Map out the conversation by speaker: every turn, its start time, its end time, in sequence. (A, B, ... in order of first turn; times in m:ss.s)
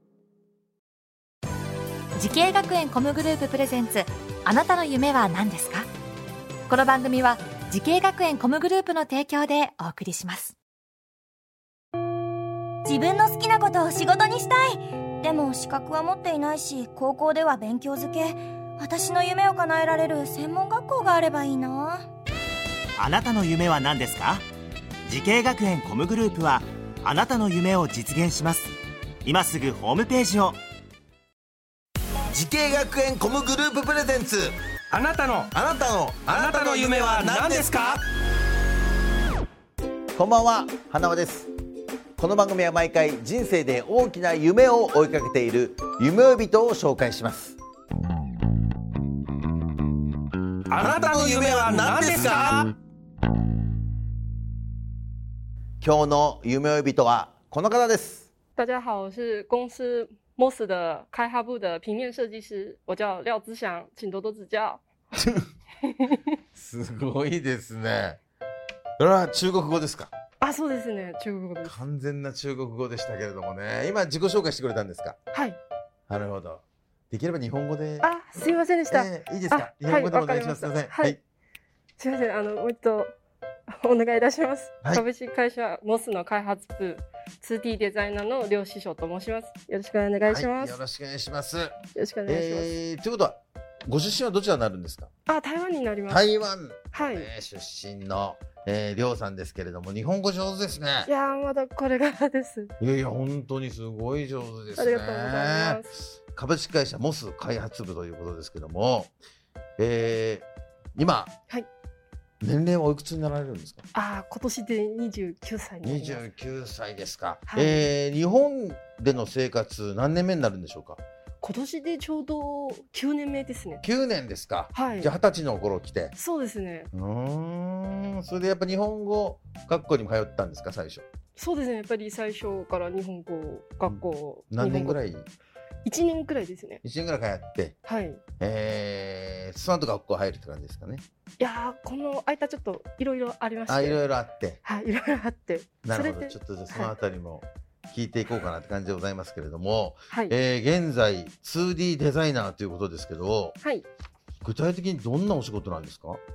0:02.2-0:05.9 A
0:06.7-0:10.6 A
0:12.8-0:22.1 B
0:23.0-0:24.5 C
0:25.0-0:30.6 C
0:32.3-0:34.5 D
0:34.9-0:35.5 E
0:35.5-0:38.0 D
0:36.2-0:38.0 E
0:40.2-0:41.5 D
0:42.2-0:47.6 D
0:50.7-0:52.7 E
0:50.8-0:52.6 D
0:55.8-0:58.3 D
0:58.6-1:04.8 F
1:05.8-1:06.2 F
1:06.6-1:08.2 D
1:09.0-1:10.1 D
1:10.4-1:11.8 F
1:11.6-1:15.2 D
1:15.3-1:15.6 F
1:16.1-1:18.1 D
1:18.0-1:21.2 F
1:18.9-1:21.2 D
1:22.0-1:23.1 F
1:23.7-1:30.8 F
1:30.3-1:35.1 D
1:31.9-1:32.7 F
1:35.3-1:36.3 F
1:36.1-1:41.1 D
1:36.9-1:37.3 F
1:41.1-1:42.7 F
1:42.8-1:49.1 D
1:44.8-1:45.9 F
1:49.8-1:51.3 D
1:52.4-1:53.8 D
1:53.9-1:56.2 F
1:55.8-2:01.0 D
1:57.5-1:57.9 F
2:01.4-2:03.8 F
2:03.8-2:06.2 D
2:04.8-2:05.1 F
2:06.2-2:06.9 F
2:06.9-2:11.0 D
2:11.4-2:15.0 F
2:13.9-2:15.3 D
2:15.8-2:16.8 F
2:16.8-2:17.8 D
2:17.8-2:18.2 F
2:18.4-2:21.0 D
2:21.4-2:24.0 F
2:23.7-2:24.6 D
2:24.6-2:26.9 F
2:25.8-2:33.6 D
2:33.6-2:33.9 F
2:34.4-2:36.2 D